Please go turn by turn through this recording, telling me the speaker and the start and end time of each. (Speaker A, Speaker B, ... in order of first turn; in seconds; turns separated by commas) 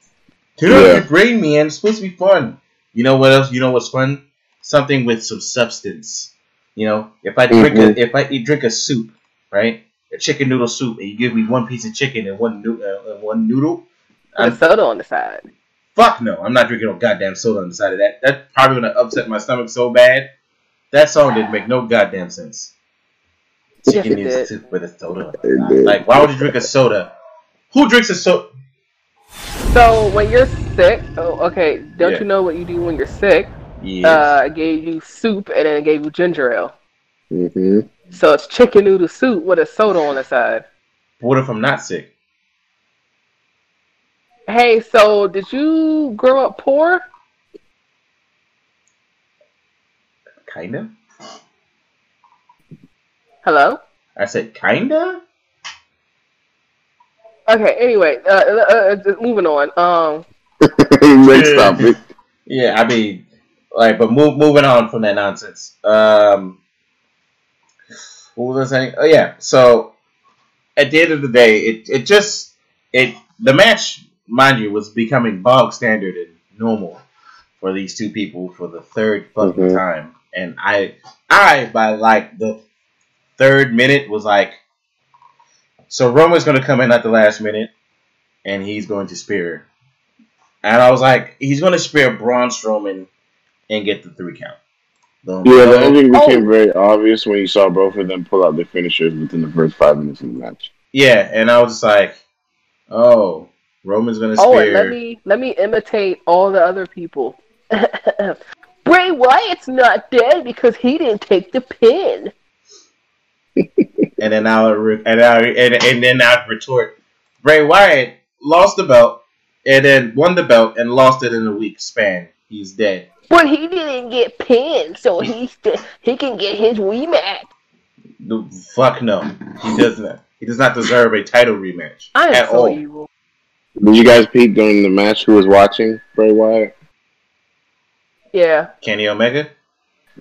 Speaker A: 0.6-14.6, Speaker B: 0.7-1.0, Speaker B: 7.5-8.0, Speaker C: 14.4-15.4, Speaker A: 15.9-20.3, Speaker A: 20.9-22.7, Speaker C: 23.8-24.5, Speaker A: 23.9-27.1, Speaker B: 25.4-26.6, Speaker A: 27.7-28.5, Speaker C: 29.7-33.5, Speaker A: 33.8-34.3, Speaker C: 34.0-36.7, Speaker B: 37.3-37.9, Speaker C: 38.1-40.6, Speaker A: 41.2-42.1, Speaker C: 44.5-47.0, Speaker A: 50.4-50.9, Speaker C: 53.4-53.8, Speaker A: 54.2-55.2, Speaker C: 57.5-60.2, Speaker B: 60.6-62.0, Speaker A: 61.2-61.9, Speaker A: 62.5-66.6, Speaker A: 68.3-69.9, Speaker A: 70.8-77.0, Speaker A: 77.6-82.6, Speaker B: 79.4-79.8, Speaker A: 83.4-84.6, Speaker A: 85.9-87.7, Speaker A: 88.4-89.7, Speaker A: 90.6-93.1, Speaker A: 93.7-94.6, Speaker A: 95.2-96.0, Speaker B: 95.4-100.7, Speaker C: 96.1-96.5, Speaker A: 100.9-102.2, Speaker A: 102.9-105.0, Speaker C: 104.4-112.3, Speaker B: 113.6-114.1, Speaker A: 114.2-123.0, Speaker C: 123.3-127.5, Speaker A: 128.2-132.8, Speaker C: 132.1-133.1, Speaker B: 133.8-136.7, Speaker C: 138.3-138.7, Speaker A: 138.8-139.5